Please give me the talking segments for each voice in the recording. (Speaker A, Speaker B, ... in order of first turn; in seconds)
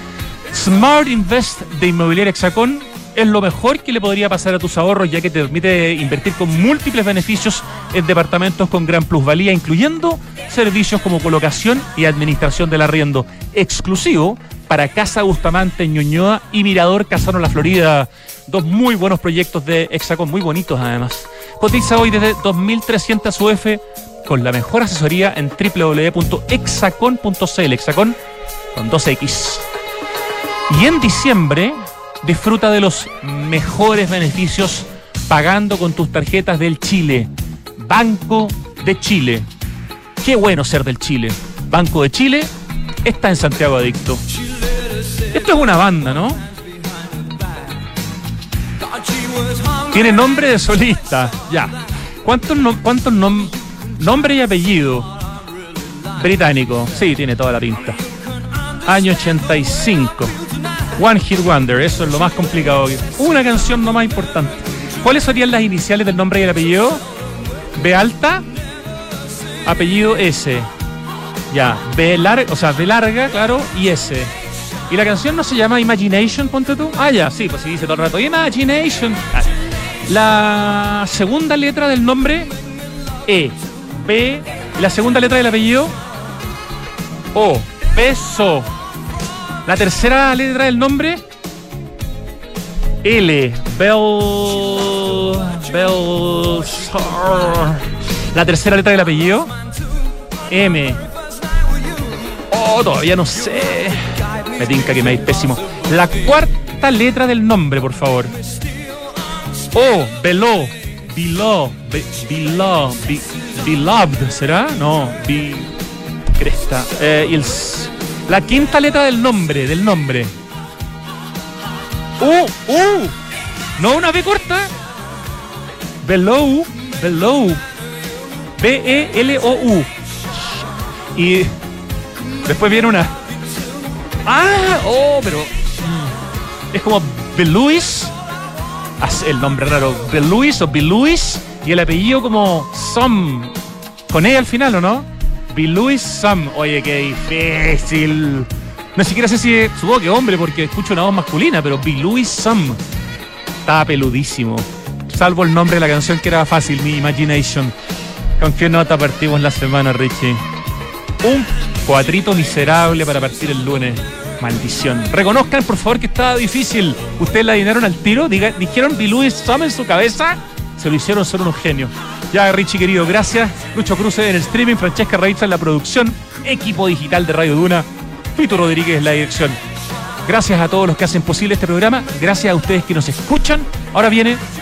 Speaker A: 0.5-28.2, 28.7-29.7, 30.7-39.5, 40.2-42.5, 43.0-44.2, 45.3-46.4, 49.9-55.1, 56.1-58.0, 58.9-60.3, 61.0-67.0, 67.8-68.5, 69.6-70.7, 71.5-74.3, 74.9-79.5, 80.0-82.5, 83.3-86.0, 87.3-88.7, 89.7-91.2, 93.0-99.5, 100.5-101.0, 102.5-108.3, 109.7-115.8, 116.4-120.3, 122.2-123.2, 123.8-124.7, 126.0-127.6, 128.6-129.9, 131.2-131.5, 132.4-133.2, 134.2-136.1, 136.7-138.1, 139.0-143.6, 144.1-152.8, 153.7-157.7, 158.4-160.4, 161.2-179.6, 180.2-184.4